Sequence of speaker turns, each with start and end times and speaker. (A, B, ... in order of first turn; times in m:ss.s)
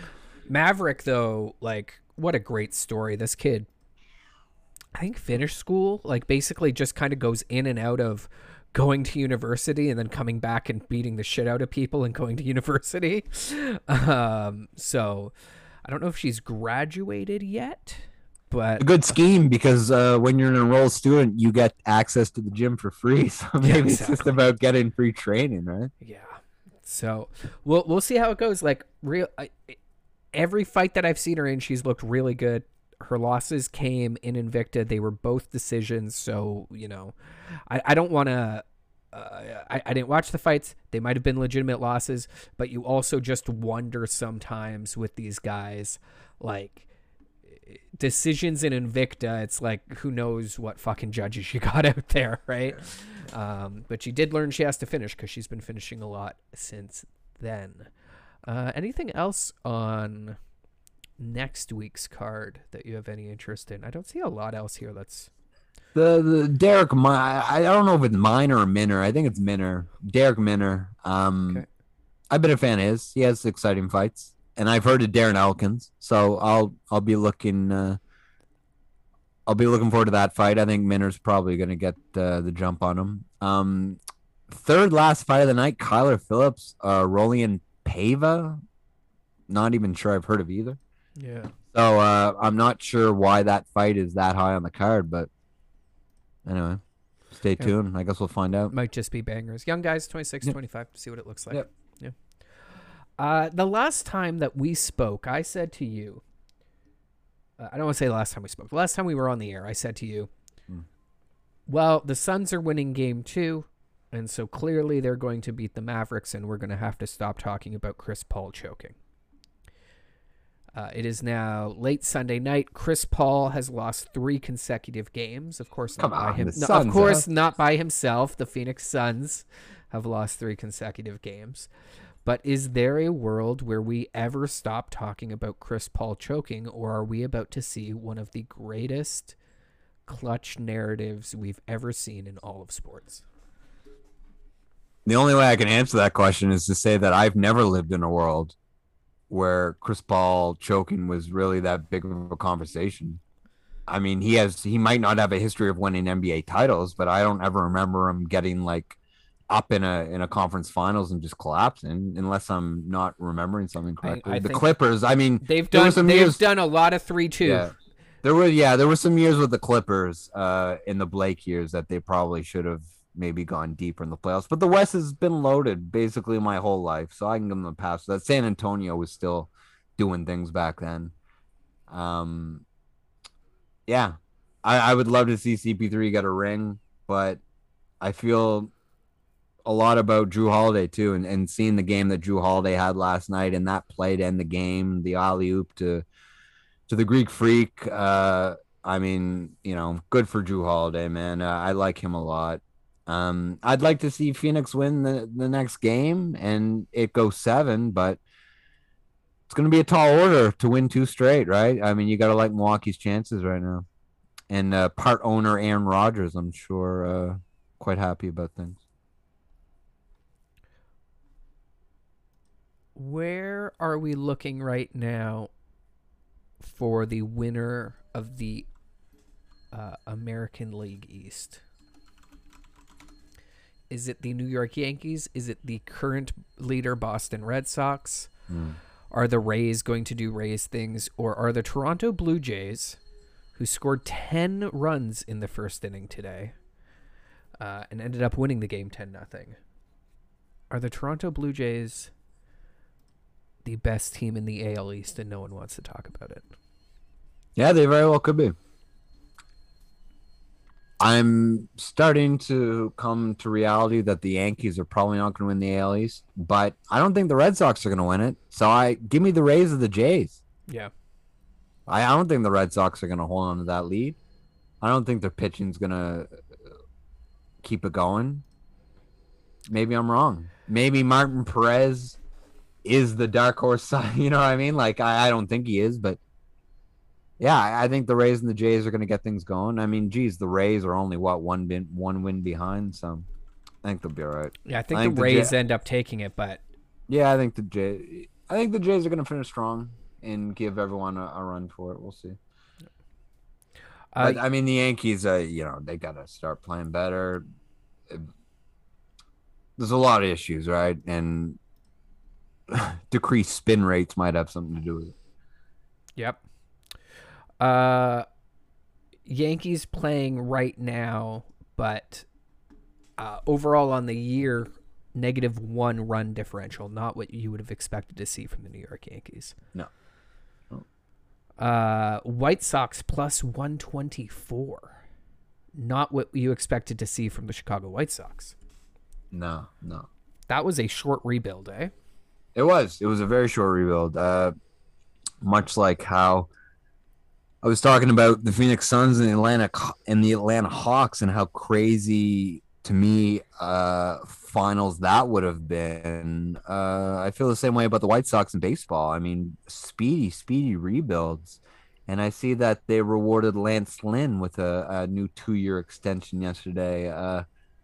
0:00.5-0:03.7 A
0:05.0-0:15.3 A
0:15.8-0:18.9 A
0:18.8-0:25.9 B
0:23.6-0:24.4 A
0:26.0-0:29.8 A
0:30.3-0:37.1 A
0:37.7-0:46.9 A
0:47.5-0:57.9 A
0:58.4-1:00.4 A
1:01.2-1:05.3 A
1:05.9-1:11.6 B
1:12.3-1:18.0 B
1:19.4-1:28.6 B
1:29.5-1:30.8 B
1:31.2-1:31.5 A
1:31.7-1:35.3 B
1:36.4-1:38.7 B
1:38.7-1:42.1 A
1:43.2-1:46.2 A
1:47.6-1:50.3 A
1:51.7-1:59.0 A
2:00.8-2:11.7 A
2:06.0-2:07.2 B
2:12.2-2:19.4 A
2:20.0-2:23.2 A
2:25.0-2:28.6 B
2:29.3-2:33.2 B
2:33.9-2:39.0 B
2:39.5-2:46.4 B
2:44.0-2:44.7 A
2:45.4-2:47.7 A
2:47.4-3:01.1 B
3:01.9-3:02.6 B
3:03.9-3:07.4 B
3:08.0-3:08.7 B
3:09.6-3:16.0 B
3:16.9-3:28.2 B
3:29.5-3:33.8 B
3:34.5-3:38.8 B
3:43.0-3:45.5 A
3:46.6-3:48.7 A
3:49.7-3:51.6 A
3:53.9-3:58.3 A
3:58.5-3:58.8 B
3:59.1-4:03.0 A
4:03.6-4:06.5 A
4:07.6-4:09.6 A
4:10.7-4:12.1 A
4:13.6-4:16.4 A
4:17.6-4:18.5 B
4:21.0-4:30.4 B
4:31.9-4:34.2 B
4:34.8-4:36.4 B
4:37.6-4:38.4 B
4:39.7-4:42.2 B
4:42.8-4:46.2 B
4:47.4-4:53.2 B
4:53.8-4:55.5 B
4:54.6-4:56.6 A
4:57.1-5:02.4 B
5:04.1-5:04.4 A
5:04.2-5:07.4 B
5:09.8-5:11.6 B
5:12.7-5:15.1 B
5:17.6-5:18.2 A
5:19.3-5:22.3 A
5:23.2-5:29.6 A
5:31.6-5:35.0 A
5:35.8-5:38.5 A
5:39.3-5:40.1 B
5:40.5-5:41.9 A
5:42.5-5:44.5 B
5:45.4-5:46.5 B
5:47.6-6:07.4 B